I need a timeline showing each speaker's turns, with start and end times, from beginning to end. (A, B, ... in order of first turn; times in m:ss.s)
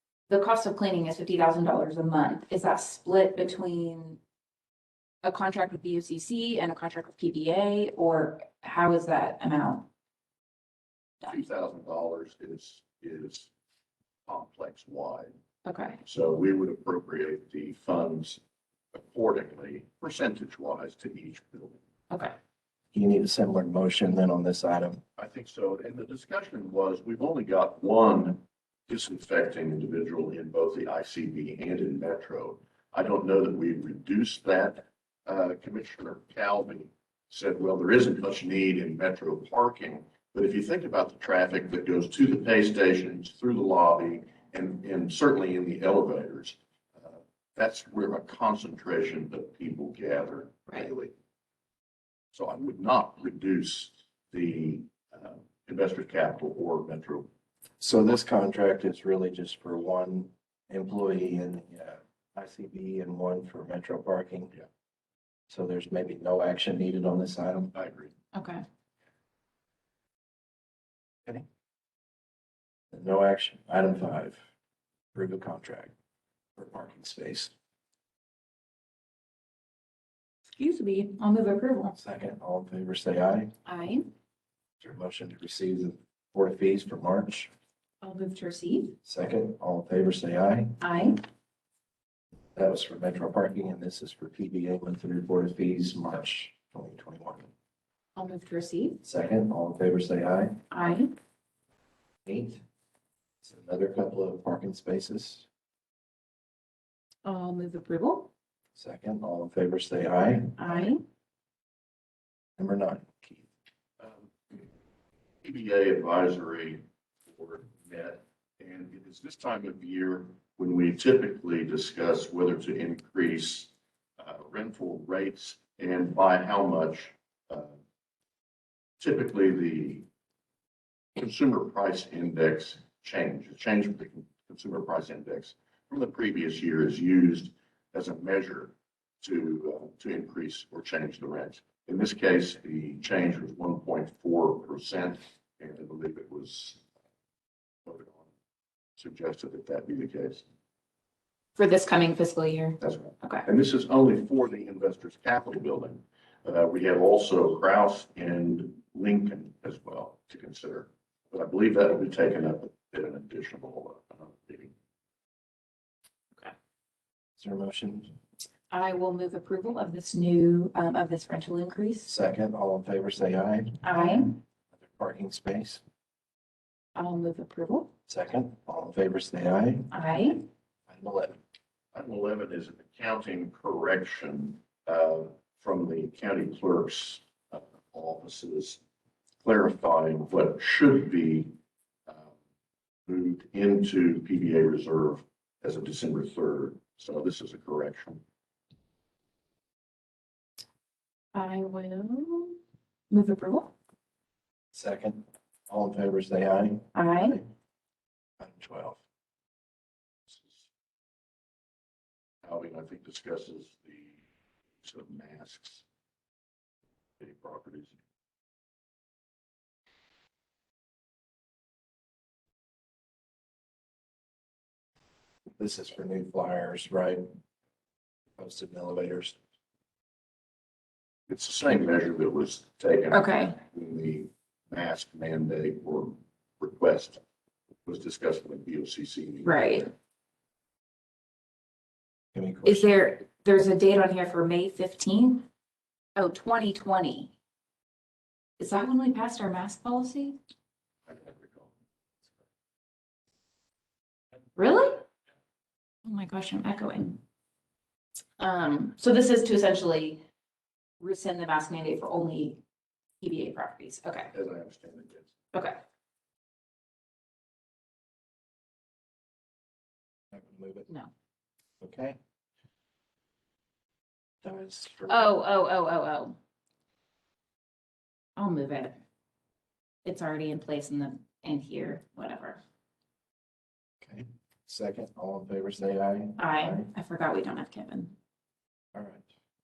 0:00.3-0:04.2 A
0:05.2-0:09.9 A
0:11.2-0:13.5 B
0:14.2-0:15.3 B
0:15.6-0:16.0 A
0:16.0-0:18.4 B
0:18.9-0:21.8 B
0:22.1-0:22.3 A
0:22.9-0:25.0 C
0:25.2-0:51.1 B
0:52.3-0:57.3 B
0:57.8-1:04.5 C
1:05.5-1:07.7 C
1:07.7-1:08.1 B
1:08.3-1:08.6 A
1:12.9-1:14.4 C
1:15.1-1:15.9 C
1:16.6-1:17.5 C
1:20.5-1:21.9 A
1:21.9-1:23.5 C
1:23.6-1:24.1 A
1:24.8-1:27.5 C
1:28.0-1:29.0 A
1:29.0-1:30.7 C
1:30.8-1:31.2 A
1:32.5-1:37.5 C
1:38.2-1:39.0 A
1:39.0-1:40.6 C
1:40.7-1:41.1 A
1:42.2-1:42.6 C
1:43.4-1:45.5 C
1:47.2-1:48.3 A
1:48.7-1:50.9 C
1:50.6-1:51.0 A
1:52.6-1:53.5 C
1:54.0-1:54.6 B
1:55.4-2:07.8 B
2:09.0-2:10.1 B
2:11.2-2:26.8 B
2:27.8-2:28.3 B
2:29.0-2:30.4 B
2:31.6-2:33.4 A
2:32.8-2:44.7 B
2:47.4-2:48.1 C
2:48.7-2:52.1 A
2:52.0-2:55.8 C
2:53.8-2:54.4 A
2:56.9-2:57.9 A
2:58.1-2:59.9 C
2:59.9-3:00.4 A
3:00.9-3:01.4 C
3:01.9-3:08.8 B
3:09.4-3:11.5 B
3:12.1-3:12.3 B
3:13.0-3:18.2 B
3:21.3-3:22.6 A
3:23.1-3:23.7 A
3:24.7-3:27.4 C
3:26.9-3:27.4 A
3:28.4-3:29.0 C
3:30.3-3:30.7 B
3:32.4-3:34.2 B
3:34.8-3:35.8 B
3:37.2-3:38.0 B
3:45.6-3:47.3 C
3:48.4-3:49.4 C
3:51.3-3:57.2 B
3:53.1-3:53.6 A
3:57.8-3:59.9 B
3:59.4-3:59.9 A
4:02.3-4:02.9 C
4:02.6-4:05.5 A
4:06.2-4:07.3 A
4:08.6-4:10.4 A
4:11.1-4:11.7 B
4:14.6-4:15.0 A
4:16.0-4:17.2 A
4:18.4-4:20.2 A
4:21.0-4:22.6 A
4:23.2-4:24.3 A
4:24.3-4:25.3 B
4:25.5-4:25.8 A
4:30.3-4:30.9 C
4:31.8-4:32.2 C
4:34.4-4:35.3 C
4:35.1-4:36.4 A
4:38.4-4:39.0 A
4:40.0-4:42.6 A
4:44.0-4:46.8 C
4:46.4-4:48.1 A
4:48.9-4:49.3 C